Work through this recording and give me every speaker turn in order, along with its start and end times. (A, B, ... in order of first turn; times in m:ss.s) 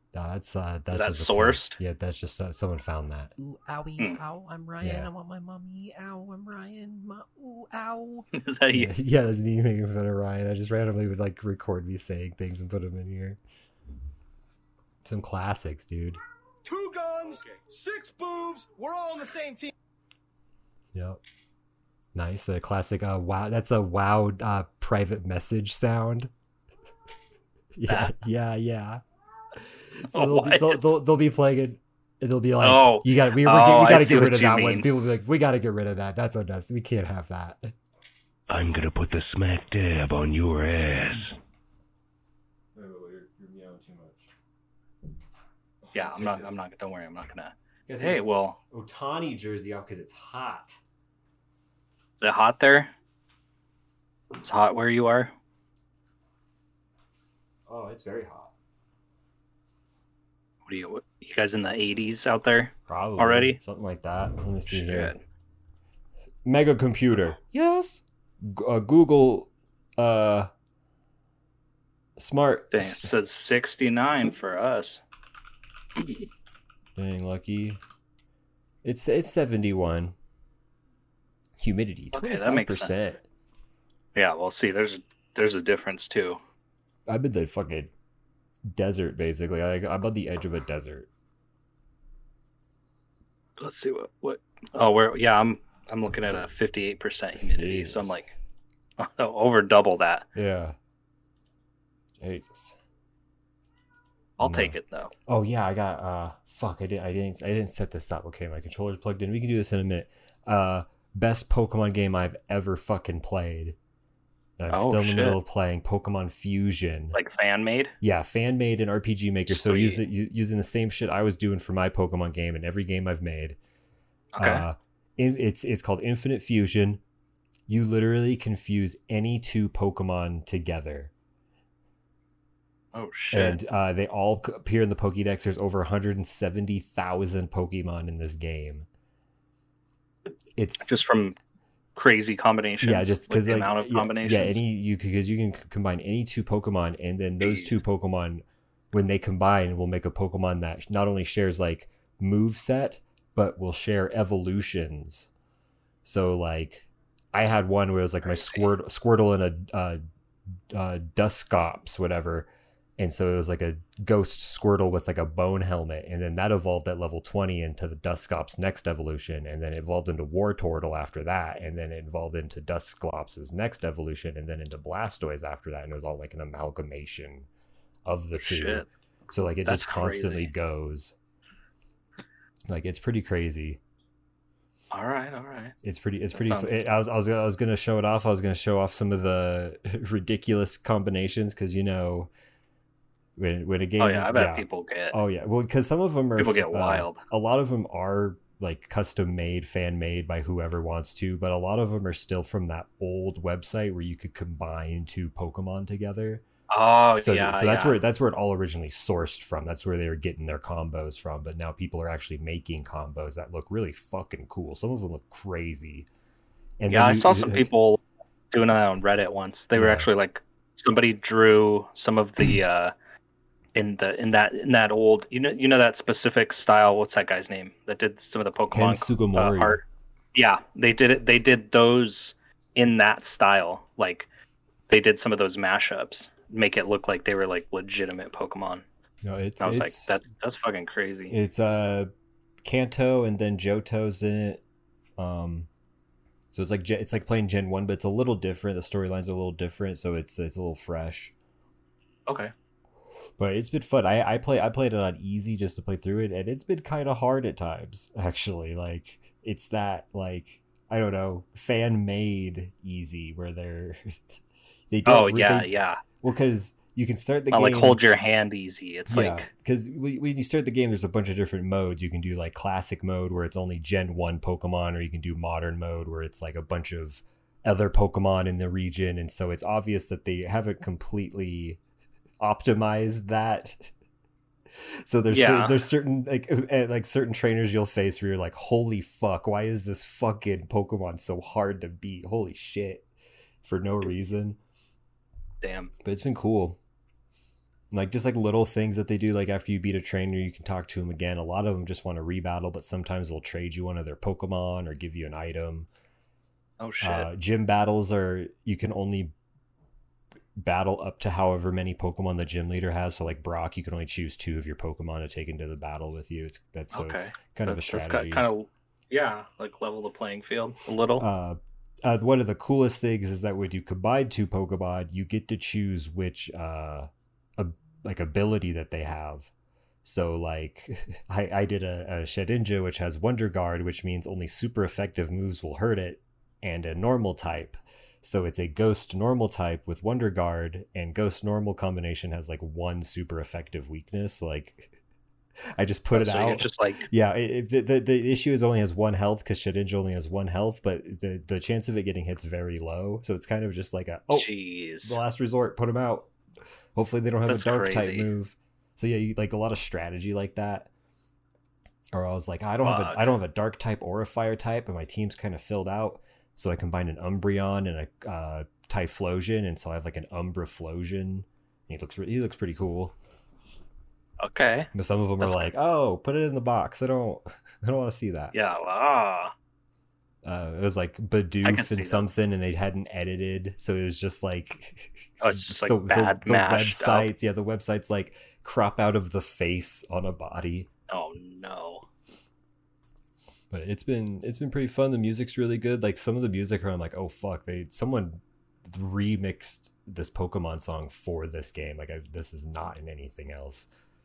0:00.1-0:03.3 A
0:00.9-0:01.8 B
0:03.4-0:08.3 C
0:04.8-0:05.1 A
0:08.3-0:08.9 B
0:08.7-0:13.4 A
0:15.0-0:16.2 A
0:16.6-0:19.7 D
0:20.9-0:21.2 A
0:22.1-0:26.3 A
0:27.7-0:29.0 A
0:29.6-0:37.7 A
0:30.1-0:30.9 B
0:32.6-0:34.9 B
0:38.5-0:41.3 E
0:42.7-0:44.3 A
0:45.9-0:46.6 A
0:45.9-0:48.6 B
0:47.9-0:50.8 A
0:52.2-0:52.9 B
0:54.4-0:55.3 B
0:57.7-0:58.5 A
1:00.6-1:03.6 B
1:02.9-1:05.1 A
1:04.7-1:05.2 B
1:06.4-1:10.5 A
1:12.2-1:13.1 A
1:12.7-1:15.0 B
1:17.0-1:17.8 A
1:18.8-1:20.2 A
1:21.6-1:23.2 A
1:22.1-1:22.9 B
1:24.1-1:26.4 B
1:27.1-1:27.9 A
1:28.6-1:31.1 A
1:33.6-1:38.3 B
1:37.4-1:38.2 A
1:39.0-1:40.3 B
1:40.3-1:40.8 A
1:42.2-1:42.8 A
1:44.4-1:45.1 B
1:44.4-1:44.8 A
1:45.3-1:53.8 A
1:54.6-1:57.2 A
1:54.7-1:55.4 B
1:57.1-1:57.9 B
1:58.0-2:03.6 A
1:59.5-2:00.0 B
2:04.3-2:04.6 B
2:04.4-2:07.0 A
2:07.7-2:11.1 A
2:12.9-2:13.6 B
2:13.3-2:18.9 A
2:20.6-2:21.0 A
2:20.8-2:21.4 B
2:21.9-2:24.6 B
2:22.8-2:35.3 A
2:27.4-2:27.8 B
2:36.0-2:40.0 A
2:38.2-2:38.7 B
2:40.7-2:57.5 A
2:58.0-3:01.2 A
2:58.4-2:58.9 B
2:59.5-3:00.5 B
3:02.7-3:03.8 A
3:04.9-3:05.7 B
3:05.8-3:12.3 A
3:06.3-3:06.8 B
3:13.4-3:26.4 A
3:14.0-3:15.2 B
3:16.4-3:17.2 B
3:26.7-3:28.0 B
3:27.2-3:36.1 A
3:36.8-3:37.7 A
3:36.9-3:42.9 B
3:39.7-3:40.1 A
3:43.7-3:49.8 B
3:48.7-3:49.8 A
3:50.3-3:54.3 B
3:54.9-3:58.8 B
3:59.2-4:00.2 A
3:59.6-4:01.3 B
4:01.3-4:02.1 A
4:02.6-4:04.6 A
4:05.2-4:05.7 A
4:06.5-4:11.3 A
4:12.3-4:12.5 B
4:13.4-4:28.0 A
4:25.0-4:26.0 B
4:27.5-4:29.5 B
4:29.1-4:41.8 A
4:42.4-4:43.9 A
4:44.8-4:53.1 A
4:45.3-4:45.8 B
4:53.6-4:54.6 A
4:55.6-4:55.9 B
4:56.0-4:56.8 A
4:57.9-5:05.9 A
5:06.8-5:07.3 B
5:07.0-5:09.3 A
5:10.6-5:18.5 A
5:16.9-5:21.2 B
5:21.2-5:29.5 A
5:30.0-5:44.9 A
5:45.7-5:54.5 A
5:46.1-5:47.0 B
5:54.3-5:55.2 B
5:55.0-5:56.3 A
5:56.9-6:00.9 A
5:57.4-5:58.3 B
6:02.1-6:13.2 A
6:02.8-6:03.3 B
6:14.4-6:15.7 B
6:14.9-6:18.5 A
6:18.5-6:19.5 B
6:20.4-6:30.9 A
6:21.6-6:22.2 B
6:25.4-6:27.3 B
6:31.1-6:32.1 B
6:33.7-6:43.9 A